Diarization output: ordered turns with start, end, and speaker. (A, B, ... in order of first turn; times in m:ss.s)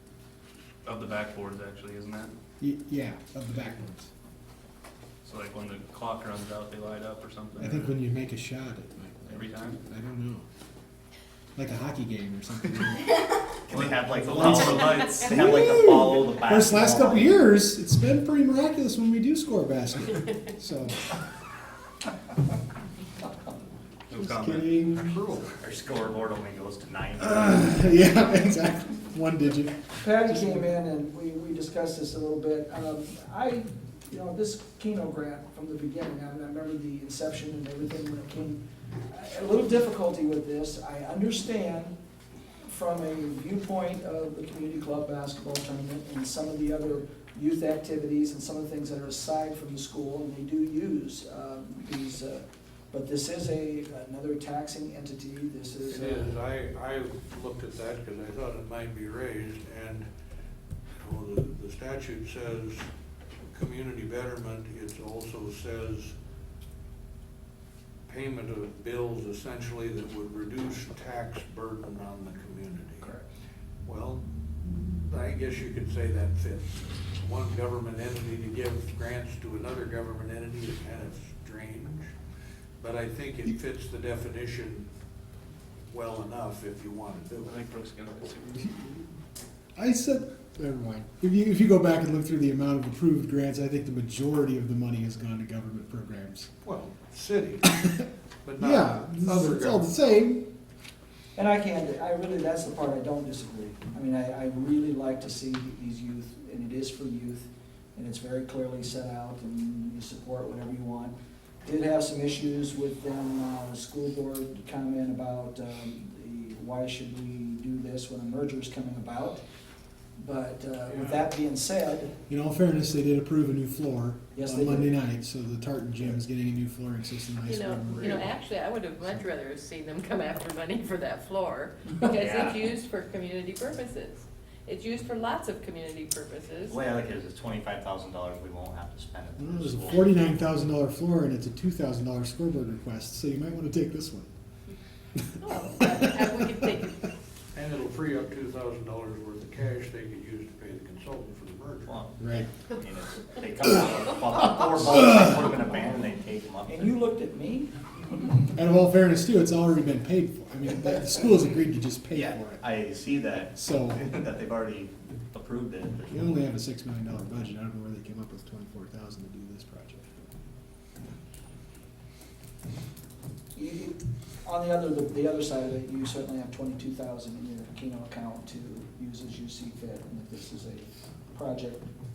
0:00.8-0:02.3 A
0:02.6-0:04.1 B
0:05.2-0:07.9 A
0:07.6-0:10.4 B
0:09.3-0:09.8 A
0:11.6-0:13.2 B
0:13.7-0:17.3 C
0:13.7-0:15.2 A
0:14.2-0:21.0 B
0:24.1-0:25.2 A
0:24.2-0:25.4 B
0:25.6-0:28.0 C
0:27.2-0:30.6 B
0:30.0-0:42.0 D
0:42.6-0:56.4 D
0:55.9-1:00.1 E
1:01.0-1:02.9 E
1:03.5-1:06.1 E
1:08.1-1:13.2 E
1:13.8-1:22.1 E
1:22.8-1:24.9 E
1:25.9-1:27.6 E
1:27.4-1:28.9 A
1:29.8-1:36.5 B
1:36.6-1:37.9 E
1:38.4-1:39.9 E
1:38.6-1:40.5 B
1:41.4-1:59.4 D
2:00.2-2:02.1 D
2:00.9-2:01.3 E
2:02.3-2:08.4 B
2:04.4-2:05.0 D
2:07.4-2:16.8 F
2:12.0-2:12.7 C
2:16.7-2:20.3 C
2:19.4-2:24.3 B
2:25.4-2:27.0 F
2:25.4-2:26.7 B
2:27.5-2:32.0 E
2:31.9-2:37.0 C
2:32.2-2:32.5 B
2:36.7-2:38.4 D
2:38.5-2:42.7 B
2:42.1-2:46.3 C
2:43.6-2:44.2 B
2:46.1-2:50.3 B
2:53.6-3:01.9 D